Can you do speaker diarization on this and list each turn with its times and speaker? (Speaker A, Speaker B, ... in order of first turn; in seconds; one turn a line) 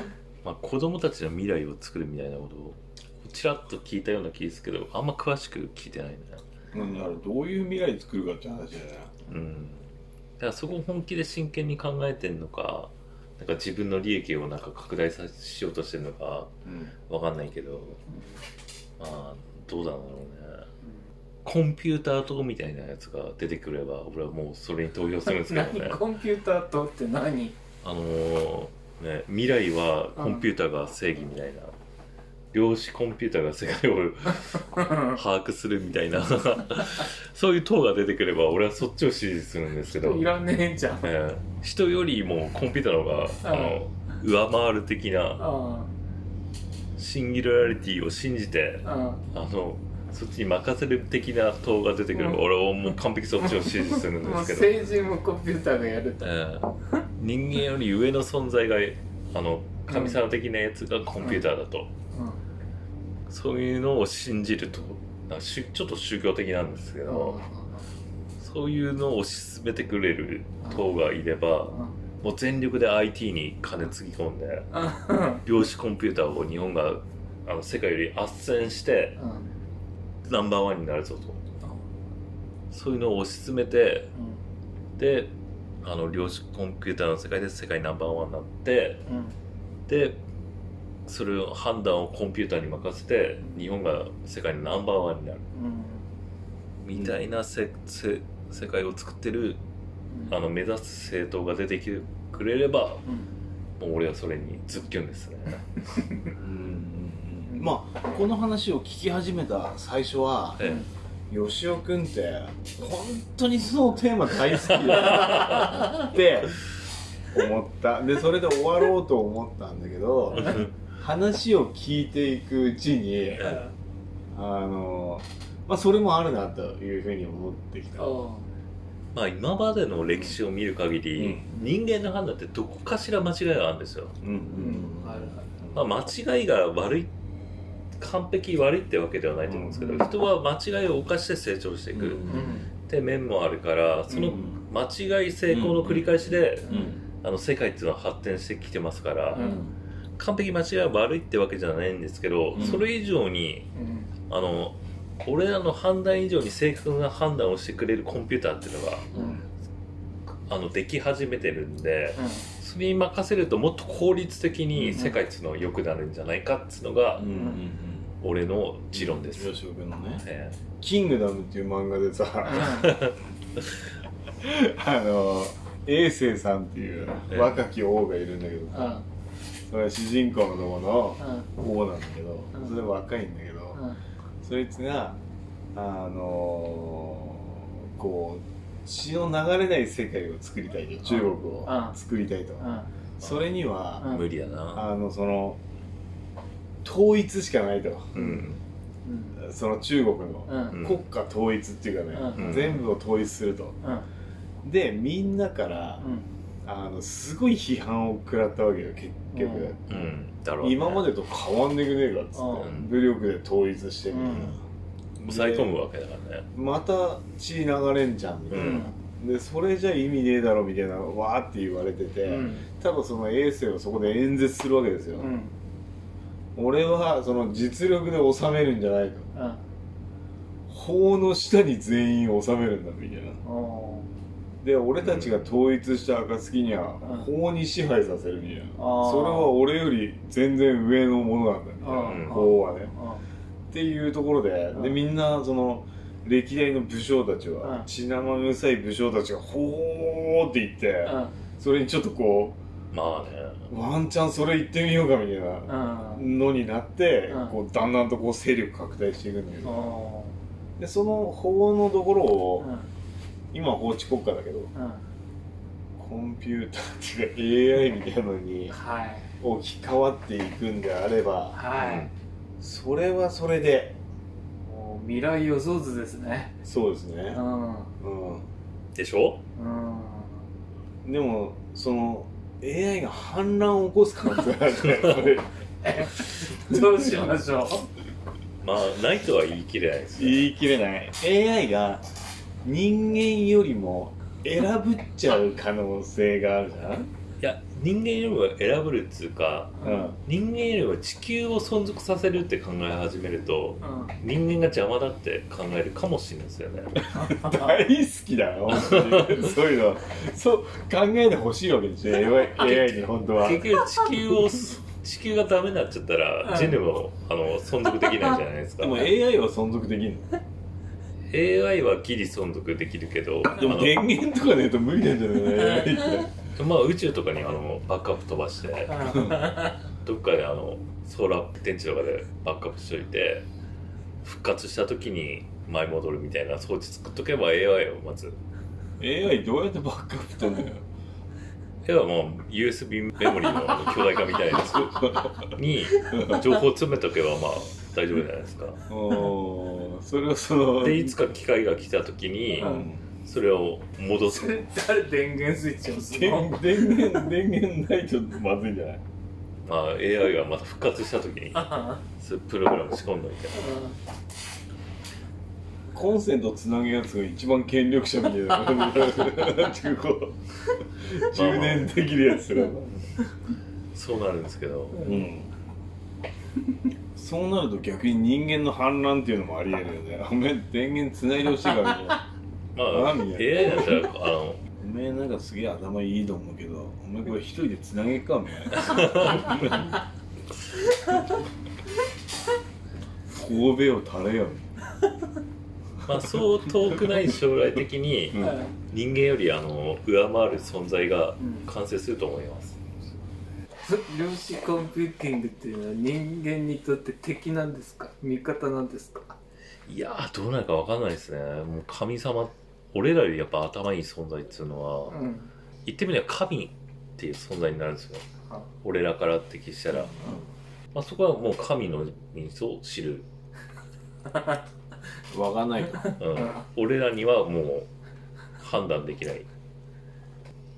Speaker A: 0.4-6.4
Speaker B: 6.7-9.1
Speaker A: 9.3-16.5
Speaker B: 16.6-16.9
Speaker A: 17.1-18.0
Speaker A: 19.0-20.7
Speaker A: 21.4-26.0
Speaker C: 25.2-27.6
Speaker A: 27.8-31.7
Speaker C: 30.1-30.5
Speaker A: 32.5-40.3
Speaker C: 39.9-41.1
Speaker A: 41.0-45.4
Speaker C: 43.4-43.8
Speaker C: 45.4-45.9
Speaker A: 47.0-54.8
Speaker C: 48.8-49.2
Speaker C: 52.1-52.4
Speaker C: 53.5-56.3
Speaker A: 56.2-61.9
Speaker C: 59.9-60.2
Speaker C: 61.2-61.4
Speaker C: 62.1-62.4
Speaker A: 63.3-67.4
Speaker C: 67.0-67.8
Speaker A: 68.4-74.7
Speaker C: 71.7-72.0
Speaker C: 74.7-75.4
Speaker A: 75.3-79.2
Speaker C: 79.2-79.6
Speaker A: 80.3-81.4
Speaker A: 82.7-84.1
Speaker C: 84.1-84.4
Speaker A: 85.0-89.0
Speaker C: 89.0-89.3
Speaker A: 89.9-90.2
Speaker A: 91.0-95.4
Speaker C: 95.5-96.1
Speaker A: 96.8-99.6
Speaker B: 96.9-97.2
Speaker A: 100.3-103.0
Speaker C: 103.0-103.3
Speaker A: 103.8-105.6
Speaker B: 106.4-110.6
Speaker A: 110.6-110.8
Speaker C: 110.6-110.9
Speaker B: 111.3-116.6
Speaker A: 114.7-115.9
Speaker B: 117.3-123.5
Speaker A: 120.3-120.7
Speaker A: 123.4-123.7
Speaker B: 124.3-128.1
Speaker C: 128.0-128.5
Speaker A: 129.1-134.2
Speaker B: 130.1-130.4
Speaker B: 131.2-131.5
Speaker B: 134.2-135.8
Speaker C: 134.5-135.5
Speaker A: 135.7-137.1
Speaker A: 138.0-142.2
Speaker B: 139.5-140.1
Speaker B: 141.9-142.7
Speaker C: 142.3-142.7
Speaker A: 142.9-149.6
Speaker C: 144.1-144.4
Speaker B: 144.2-144.6
Speaker B: 145.5-147.0
Speaker C: 146.7-147.0
Speaker B: 149.3-149.7
Speaker C: 149.3-149.6
Speaker A: 150.2-153.7
Speaker B: 152.5-152.8
Speaker C: 153.7-154.1
Speaker A: 154.3-159.2
Speaker C: 159.1-159.4
Speaker B: 159.1-159.4
Speaker A: 160.5-167.3
Speaker C: 162.2-162.5
Speaker B: 164.7-165.1
Speaker B: 167.2-168.1
Speaker C: 167.3-167.6
Speaker A: 168.2-169.5
Speaker B: 168.9-170.2
Speaker A: 170.2-170.6
Speaker B: 170.8-172.8
Speaker C: 172.4-172.9
Speaker A: 172.5-173.2
Speaker B: 174.4-179.0
Speaker A: 177.3-177.6
Speaker C: 178.7-179.0
Speaker B: 179.7-183.8
Speaker C: 181.2-181.5
Speaker C: 183.7-184.0
Speaker B: 184.4-185.2
Speaker B: 185.7-194.1
Speaker C: 191.1-192.0
Speaker C: 192.6-192.9
Speaker A: 193.2-194.9
Speaker C: 194.0-194.2
Speaker B: 194.7-195.6
Speaker B: 196.8-198.2
Speaker A: 198.1-198.6
Speaker C: 198.2-198.5
Speaker C: 199.0-199.4
Speaker B: 199.4-203.8
Speaker C: 200.5-200.8
Speaker A: 200.7-201.1
Speaker C: 202.1-202.6
Speaker A: 202.3-202.8
Speaker C: 203.8-204.1
Speaker B: 204.6-206.0
Speaker C: 206.0-206.3
Speaker B: 206.6-214.6
Speaker C: 209.3-209.8
Speaker A: 209.9-211.1
Speaker C: 212.3-212.7
Speaker A: 212.6-213.0
Speaker C: 214.1-214.6
Speaker A: 214.3-214.5
Speaker B: 215.2-215.7
Speaker A: 215.2-216.5
Speaker B: 216.5-225.3
Speaker A: 218.5-218.9
Speaker C: 218.5-218.9
Speaker C: 222.2-222.7
Speaker C: 225.2-225.5
Speaker B: 226.6-229.3
Speaker C: 229.3-229.6
Speaker B: 230.7-233.4
Speaker C: 233.4-234.1
Speaker B: 234.6-242.9
Speaker A: 235.0-235.5
Speaker C: 237.0-237.3
Speaker C: 238.8-239.5
Speaker C: 241.8-243.2
Speaker A: 242.0-242.4
Speaker B: 243.7-252.6
Speaker C: 244.7-245.0
Speaker C: 247.6-247.9
Speaker C: 251.0-251.3
Speaker A: 252.9-253.7
Speaker B: 253.7-259.9
Speaker C: 255.7-256.3
Speaker C: 257.3-257.6
Speaker C: 259.6-260.4
Speaker B: 260.8-262.7
Speaker C: 262.6-262.9
Speaker B: 263.5-264.7
Speaker C: 264.7-265.0
Speaker B: 266.0-268.7
Speaker C: 268.7-269.3
Speaker B: 269.4-271.6
Speaker C: 271.5-272.1
Speaker A: 271.7-272.1
Speaker B: 272.6-274.0
Speaker C: 274.6-276.5
Speaker B: 276.6-277.4
Speaker C: 277.3-277.9
Speaker B: 278.0-278.5
Speaker A: 278.9-279.4
Speaker C: 279.6-280.4
Speaker B: 281.0-285.5
Speaker C: 285.8-287.9
Speaker B: 286.7-287.2
Speaker A: 288.6-290.5
Speaker B: 290.1-292.0
Speaker B: 292.6-297.1
Speaker A: 297.4-307.1
Speaker C: 299.8-300.1
Speaker B: 299.8-300.2
Speaker C: 303.8-304.1
Speaker B: 307.0-313.6
Speaker C: 307.1-307.8
Speaker A: 308.7-309.5
Speaker A: 312.6-319.1
Speaker B: 318.8-320.3
Speaker A: 321.3-324.0
Speaker B: 323.6-326.3
Speaker A: 326.5-333.5
Speaker C: 328.9-329.8
Speaker A: 334.2-338.4
Speaker B: 339.0-340.8
Speaker A: 341.8-348.8
Speaker B: 345.1-345.3
Speaker C: 346.0-346.4
Speaker B: 346.1-346.5
Speaker B: 348.9-351.2
Speaker A: 350.8-354.6
Speaker B: 352.6-353.0
Speaker C: 352.6-352.9
Speaker C: 354.2-357.3
Speaker B: 355.9-359.0
Speaker A: 359.6-363.8
Speaker C: 361.5-362.0
Speaker C: 363.5-364.0
Speaker B: 365.9-370.4
Speaker B: 370.9-372.9
Speaker A: 371.3-372.0
Speaker A: 373.9-375.1
Speaker B: 375.0-375.5
Speaker B: 377.1-382.2
Speaker A: 382.7-384.6
Speaker B: 382.9-384.0
Speaker B: 384.8-389.9
Speaker A: 388.8-389.6
Speaker B: 393.3-394.7
Speaker A: 396.0-402.8
Speaker B: 397.0-397.4
Speaker B: 398.3-398.6
Speaker C: 398.4-398.6
Speaker C: 401.4-401.7
Speaker C: 403.8-409.4
Speaker A: 409.9-415.1
Speaker C: 415.1-415.5
Speaker A: 415.8-418.2
Speaker A: 418.8-420.4
Speaker B: 419.9-420.5
Speaker A: 420.9-423.3
Speaker B: 425.3-426.1
Speaker A: 426.2-427.9
Speaker A: 428.6-429.5